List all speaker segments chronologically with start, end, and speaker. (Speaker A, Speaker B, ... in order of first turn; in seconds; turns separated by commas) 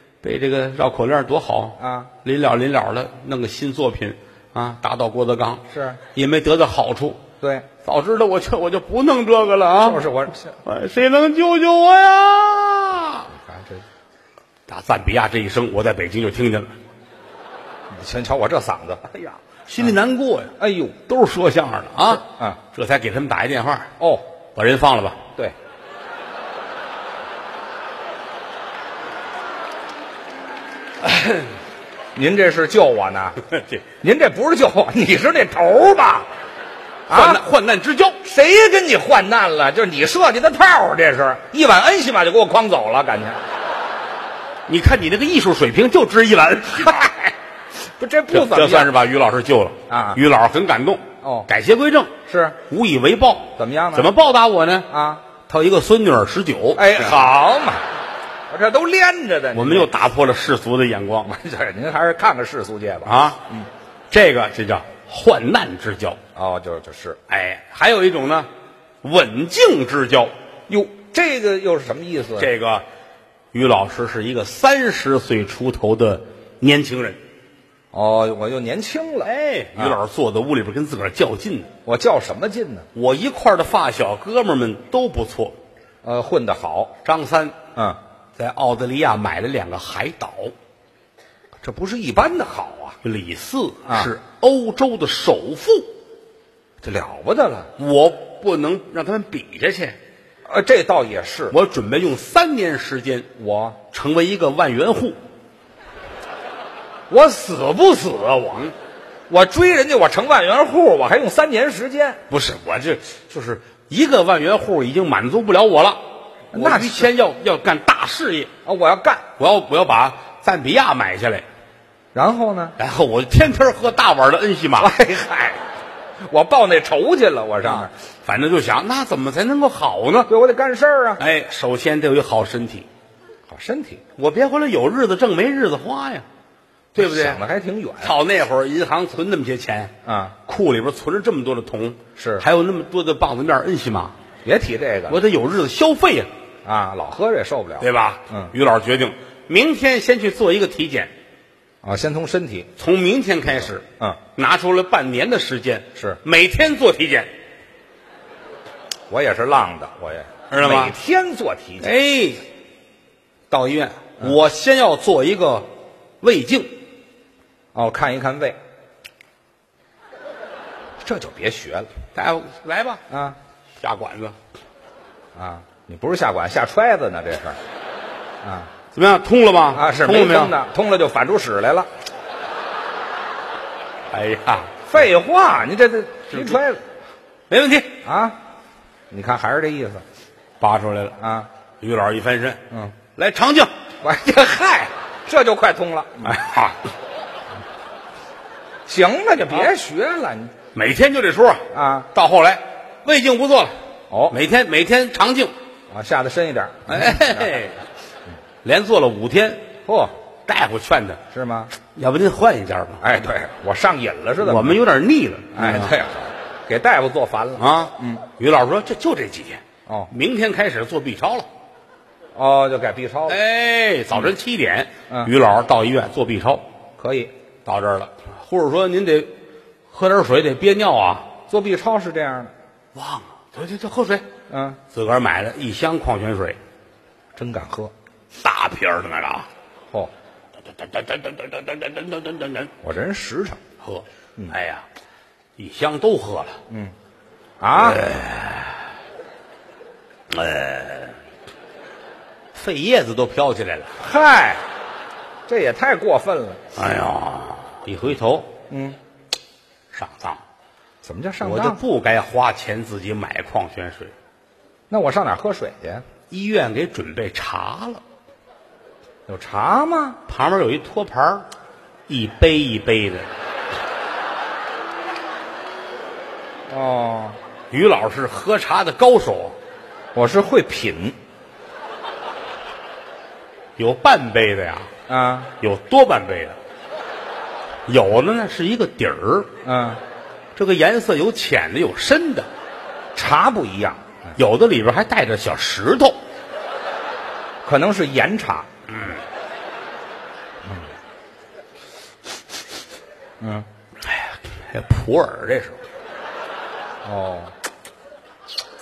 Speaker A: 0.2-7.2, Speaker B: 1.8-2.1, Speaker B: 5.7-6.0, Speaker B: 7.4-7.7, Speaker A: 7.8-10.1, Speaker B: 9.8-10.5, Speaker A: 10.6-13.3, Speaker B: 13.3-13.8, Speaker A: 14.7-16.7, Speaker B: 17.9-19.0, Speaker A: 19.1-23.9, Speaker B: 20.6-20.9, Speaker B: 22.1-22.6, Speaker A: 24.5-25.2, Speaker A: 31.0-31.5, Speaker B: 32.1-33.4, Speaker A: 33.5-33.8, Speaker B: 34.0-36.3, Speaker B: 37.1-37.4, Speaker A: 37.1-38.2, Speaker B: 38.2-43.4, Speaker A: 44.7-47.3, Speaker B: 47.8-48.9, Speaker A: 48.3-52.1, Speaker B: 49.9-50.2, Speaker B: 51.2-51.5, Speaker B: 52.3-52.6, Speaker A: 52.7-54.9, Speaker B: 53.6-54.1, Speaker B: 54.9-55.2, Speaker A: 55.4-57.2, Speaker B: 56.7-57.8, Speaker B: 58.5-59.9, Speaker A: 59.5-61.3, Speaker B: 61.2-63.7, Speaker A: 63.0-63.4, Speaker A: 64.1-66.2, Speaker B: 66.3-67.2, Speaker A: 67.3-68.5, Speaker A: 69.0-70.3, Speaker B: 70.7-72.5, Speaker A: 72.4-72.8, Speaker A: 73.5-77.2, Speaker B: 77.9-80.0, Speaker A: 79.2-81.7, Speaker B: 81.8-82.9, Speaker A: 82.9-85.6, Speaker B: 86.0-86.9, Speaker A: 87.0-87.6, Speaker A: 88.3-90.5, Speaker B: 91.6-93.0, Speaker A: 93.0-95.9, Speaker B: 96.8-97.7, Speaker A: 97.8-100.0, Speaker B: 100.5-101.5, Speaker A: 101.5-103.3, Speaker B: 103.4-103.8, Speaker A: 103.9-105.2, Speaker B: 107.1-108.3, Speaker A: 108.2-108.7, Speaker B: 109.3-112.2, Speaker A: 112.3-118.5, Speaker B: 116.5-117.1, Speaker B: 118.6-119.2, Speaker A: 119.4-121.4, Speaker B: 122.1-122.8, Speaker A: 122.8-124.9, Speaker B: 124.8-125.6, Speaker B: 126.2-127.9, Speaker A: 127.7-130.3, Speaker B: 130.3-131.2, Speaker A: 131.2-132.9, Speaker B: 133.5-134.0, Speaker A: 134.2-136.2, Speaker A: 136.9-137.4, Speaker B: 136.9-138.1, Speaker A: 138.0-139.9, Speaker B: 140.0-140.3, Speaker A: 140.4-144.1, Speaker B: 142.2-142.4, Speaker B: 144.4-145.2, Speaker A: 145.1-146.3, Speaker B: 146.6-148.5, Speaker A: 147.8-151.1, Speaker B: 151.8-152.7, Speaker A: 152.8-157.3, Speaker B: 159.1-161.9, Speaker A: 160.5-160.9, Speaker A: 161.8-162.4, Speaker A: 163.5-165.7, Speaker A: 166.2-166.7, Speaker B: 167.7-168.6, Speaker B: 171.0-171.9, Speaker A: 172.1-173.0, Speaker B: 173.1-173.4, Speaker A: 173.8-174.3, Speaker B: 175.3-177.6, Speaker B: 178.4-178.7, Speaker A: 178.9-180.5, Speaker B: 179.7-181.9, Speaker A: 184.1-184.7, Speaker B: 184.9-186.8, Speaker A: 187.5-187.9, Speaker B: 188.0-188.4, Speaker B: 189.1-190.0, Speaker A: 190.6-191.2, Speaker B: 191.2-191.5, Speaker A: 191.8-193.7, Speaker B: 194.0-196.4, Speaker A: 196.2-196.8, Speaker B: 198.8-200.5, Speaker A: 200.7-203.8, Speaker B: 201.7-202.1, Speaker B: 204.1-204.3, Speaker A: 204.3-205.5, Speaker B: 205.9-207.5, Speaker A: 206.9-207.8, Speaker A: 208.6-209.6, Speaker B: 209.8-210.1, Speaker A: 210.4-211.2, Speaker B: 211.3-211.7, Speaker A: 211.8-213.0, Speaker B: 213.0-214.8, Speaker A: 214.4-215.9, Speaker B: 215.5-218.2, Speaker A: 217.6-221.5, Speaker B: 222.3-223.4, Speaker A: 223.3-226.6, Speaker B: 227.0-227.3, Speaker A: 227.6-229.3, Speaker A: 229.9-231.3, Speaker B: 231.5-232.5, Speaker A: 232.9-234.2, Speaker B: 234.5-234.8, Speaker A: 234.9-236.6, Speaker B: 237.3-237.9, Speaker A: 238.4-239.5, Speaker A: 240.7-242.7, Speaker B: 242.8-243.6, Speaker A: 243.8-244.8, Speaker A: 245.6-246.6, Speaker B: 246.7-246.9, Speaker B: 247.6-248.0, Speaker A: 247.7-248.8, Speaker A: 250.3-251.2, Speaker A: 252.5-253.9, Speaker B: 254.0-254.6, Speaker B: 255.5-256.6, Speaker A: 256.7-258.5, Speaker B: 258.7-259.0, Speaker A: 259.9-260.4, Speaker B: 261.0-261.8, Speaker A: 261.4-264.1, Speaker B: 264.9-266.0, Speaker A: 266.3-268.0, Speaker B: 269.3-270.2, Speaker A: 270.3-271.4, Speaker A: 272.1-273.3, Speaker B: 276.7-277.4, Speaker A: 277.7-279.5, Speaker B: 280.1-281.2, Speaker A: 283.8-284.9, Speaker B: 285.1-285.5, Speaker A: 285.6-286.6, Speaker A: 287.9-289.5, Speaker B: 289.6-290.0, Speaker A: 290.6-292.5, Speaker B: 293.1-294.4, Speaker A: 294.4-296.2, Speaker B: 297.6-298.7, Speaker A: 298.9-299.2, Speaker B: 300.6-300.9, Speaker B: 303.4-303.7, Speaker A: 304.0-305.8, Speaker B: 307.0-307.5